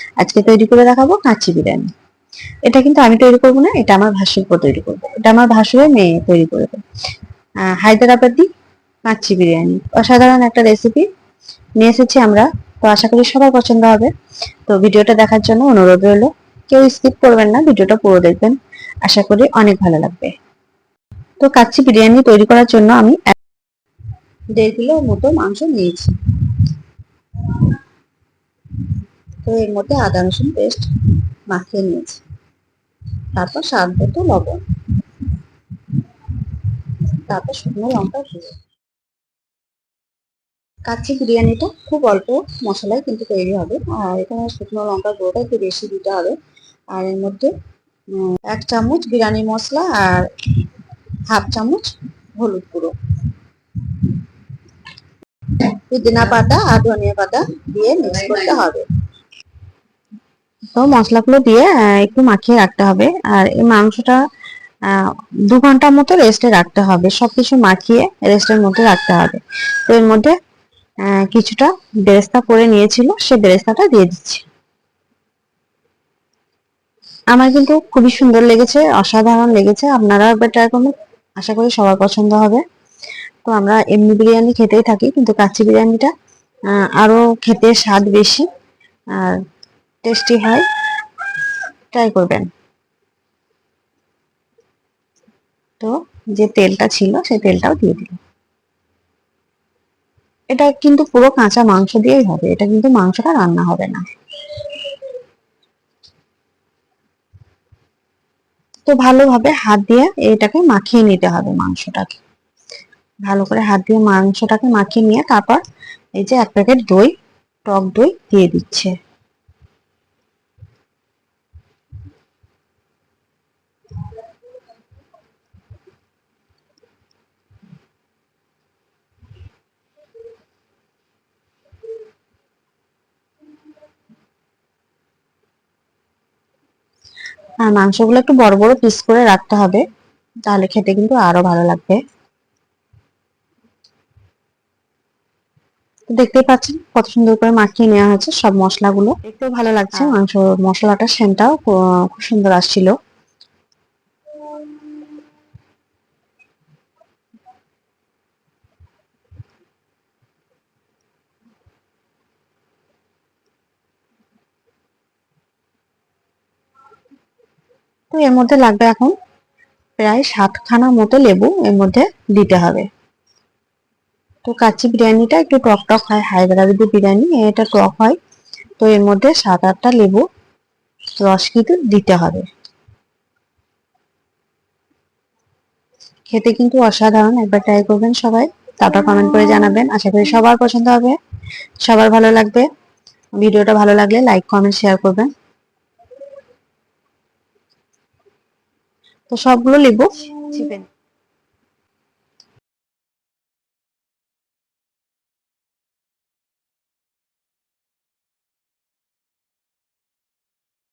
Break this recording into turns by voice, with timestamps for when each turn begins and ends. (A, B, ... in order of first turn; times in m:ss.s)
0:00.2-0:01.9 A
0:02.6-0:06.8 A
0:07.7-0:08.5 A
0:09.0-0:11.1 A
0:11.8-0:14.1 A
0:14.7-0:20.3 A
0:21.4-0:23.3 A
0:24.5-0:26.1 A
0:29.4-0:30.9 A
0:31.5-0:32.2 A
0:33.3-0:34.6 A
0:37.2-0:38.6 A
0:40.8-0:46.4 A
0:46.9-0:47.5 A
0:48.4-0:50.3 A
0:51.3-0:52.9 A
0:55.6-0:58.8 A
1:00.7-1:04.2 A
1:04.9-1:10.3 A
1:11.1-1:14.4 A
1:17.3-1:22.6 A
1:23.4-1:26.1 A
1:26.7-1:28.5 A
1:30.0-1:30.6 A
1:31.9-1:32.5 A
1:35.8-1:38.2 A
1:40.5-1:44.0 A
1:48.9-1:52.2 A
1:53.2-1:55.6 A
1:56.2-1:57.1 A
1:57.6-1:58.9 A
2:17.6-2:19.8 A
2:20.4-2:22.0 A
2:26.1-2:32.9 A
2:48.1-2:49.1 A
2:50.0-2:52.9 A
2:54.4-2:58.2 A
2:58.8-3:00.2 A
3:01.2-3:02.5 A
3:06.3-3:11.2 A
3:11.8-3:12.7 A
3:13.4-3:15.3 A
3:19.3-3:20.9 A